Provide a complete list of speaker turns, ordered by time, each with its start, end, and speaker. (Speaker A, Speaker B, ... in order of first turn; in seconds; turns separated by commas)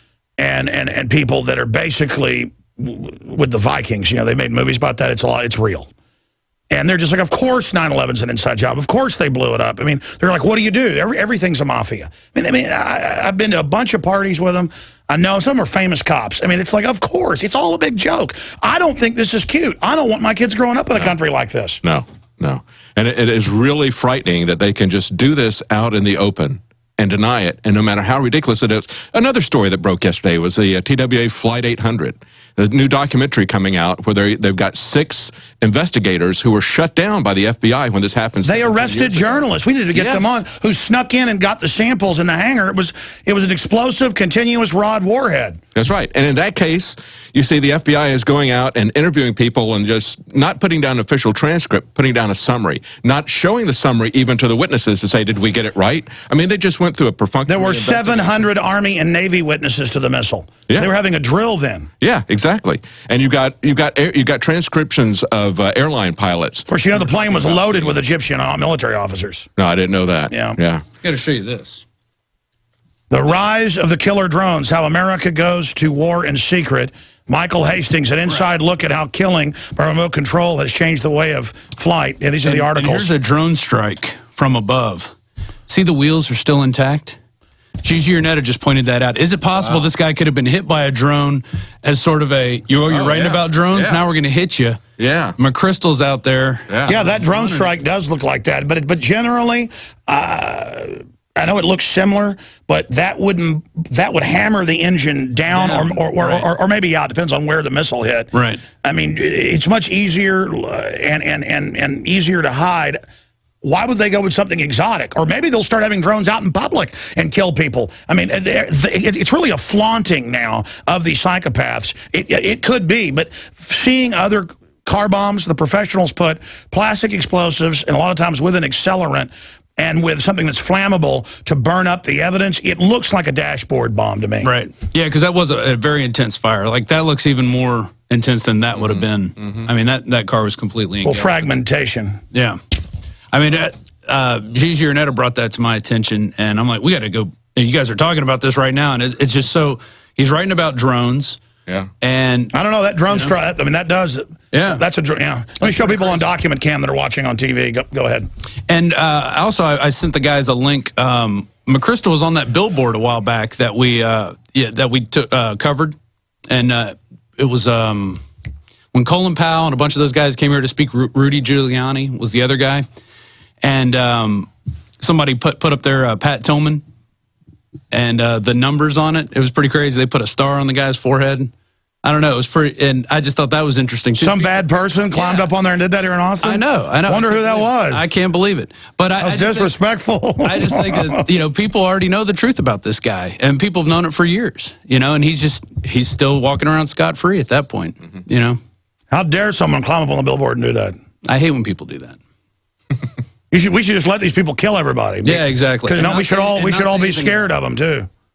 Speaker A: 0.4-5.9, Speaker A: 6.7-21.8, Speaker B: 21.8-40.4, Speaker A: 38.5-45.6, Speaker B: 45.8-58.5, Speaker A: 57.5-61.9, Speaker B: 62.0-68.0, Speaker A: 66.7-69.5, Speaker B: 69.6-70.8, Speaker A: 70.3-70.6, Speaker C: 71.0-71.8, Speaker A: 73.1-83.1, Speaker C: 82.4-85.1, Speaker C: 85.7-87.2, Speaker C: 87.8-94.8, Speaker B: 89.6-89.9, Speaker B: 92.9-94.0, Speaker B: 95.0-95.4, Speaker C: 95.4-97.7, Speaker A: 96.9-108.3, Speaker C: 105.5-106.5, Speaker C: 108.3-108.6, Speaker A: 108.8-113.0, Speaker A: 113.6-134.5, Speaker C: 134.4-141.3, Speaker B: 138.8-139.7, Speaker A: 141.0-142.2, Speaker C: 142.3-142.6, Speaker C: 143.3-151.4, Speaker C: 152.0-152.5, Speaker A: 152.5-158.3, Speaker C: 154.5-154.8, Speaker C: 155.6-156.2, Speaker C: 158.7-166.0, Speaker C: 166.5-168.2, Speaker C: 168.9-172.9, Speaker C: 173.6-176.8, Speaker C: 177.9-181.5, Speaker C: 182.0-184.6, Speaker A: 184.2-188.1, Speaker C: 185.1-185.5, Speaker C: 186.4-189.7, Speaker A: 189.2-191.2, Speaker C: 190.4-198.6, Speaker A: 199.1-201.0, Speaker C: 201.3-202.2, Speaker A: 203.5-208.1, Speaker C: 205.2-207.5